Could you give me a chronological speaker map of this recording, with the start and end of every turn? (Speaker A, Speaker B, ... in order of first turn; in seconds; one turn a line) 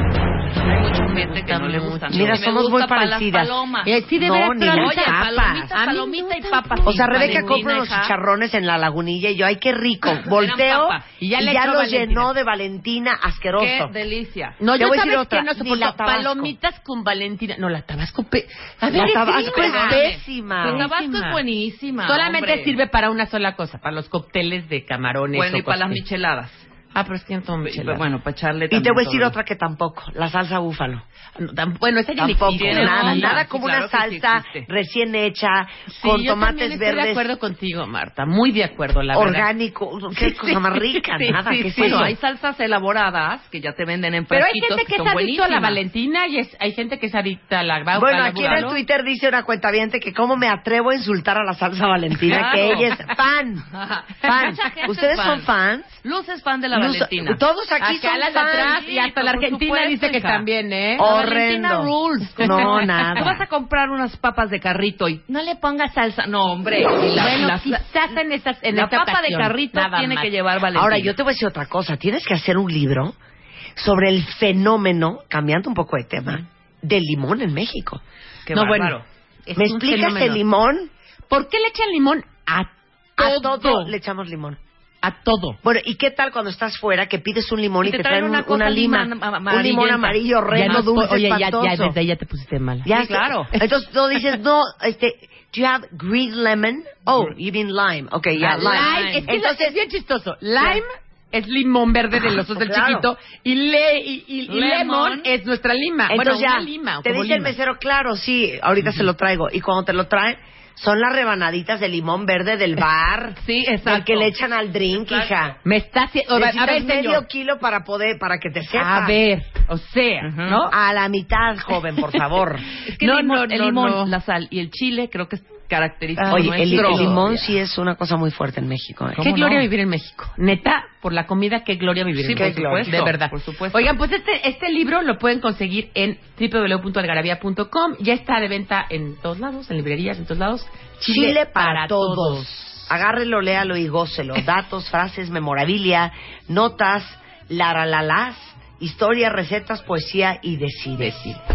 Speaker A: 0.6-4.0
Speaker B: 0.7-2.4
Speaker C: 2.1-3.5
Speaker B: 3.8-7.7
Speaker C: 4.1-5.7
Speaker A: 4.6-8.1
Speaker C: 6.8-13.9
Speaker A: 10.2-11.0
Speaker B: 11.2-12.3
Speaker A: 13.6-14.6
Speaker B: 14.6-21.4
Speaker C: 14.8-16.5
Speaker C: 18.9-20.9
Speaker A: 19.2-22.8
Speaker B: 22.0-26.0
Speaker A: 25.3-26.6
Speaker B: 26.9-28.0
Speaker A: 27.6-29.4
Speaker C: 28.7-31.0
Speaker B: 31.4-33.4
Speaker C: 32.2-37.2
Speaker A: 32.5-34.7
Speaker B: 35.9-39.5
Speaker C: 39.1-42.1
Speaker B: 40.1-42.1
Speaker A: 41.3-45.8
Speaker B: 44.3-48.8
Speaker C: 47.9-53.7
Speaker A: 48.3-48.7
Speaker A: 52.3-52.9
Speaker B: 52.4-52.9
Speaker A: 53.7-55.5
Speaker C: 54.2-56.0
Speaker A: 56.0-57.4
Speaker C: 56.7-58.8
Speaker B: 57.8-61.1
Speaker A: 58.4-60.5
Speaker C: 61.0-63.4
Speaker A: 61.0-68.1
Speaker B: 62.4-63.3
Speaker B: 67.1-70.3
Speaker A: 68.7-71.1
Speaker C: 70.7-73.2
Speaker C: 73.8-78.0
Speaker A: 78.5-79.0
Speaker B: 78.5-80.4
Speaker C: 79.6-80.9
Speaker B: 81.3-83.9
Speaker C: 83.2-84.6
Speaker B: 85.0-85.6
Speaker C: 85.6-91.9
Speaker A: 87.8-90.8
Speaker B: 90.5-92.9
Speaker C: 92.8-99.8
Speaker A: 92.9-93.5
Speaker A: 98.4-99.3
Speaker B: 98.4-107.5
Speaker C: 102.5-103.1
Speaker A: 104.5-105.3
Speaker C: 106.1-115.6
Speaker A: 113.4-114.3
Speaker B: 115.6-117.2
Speaker C: 116.3-119.2
Speaker B: 118.7-120.7
Speaker A: 120.2-120.6
Speaker C: 120.7-122.7
Speaker A: 122.8-127.5
Speaker B: 123.0-124.1
Speaker B: 126.2-127.1
Speaker C: 126.3-129.2
Speaker A: 129.1-129.7
Speaker B: 129.2-142.8
Speaker A: 132.2-133.9
Speaker C: 132.3-133.0
Speaker C: 141.0-151.4
Speaker B: 151.0-151.4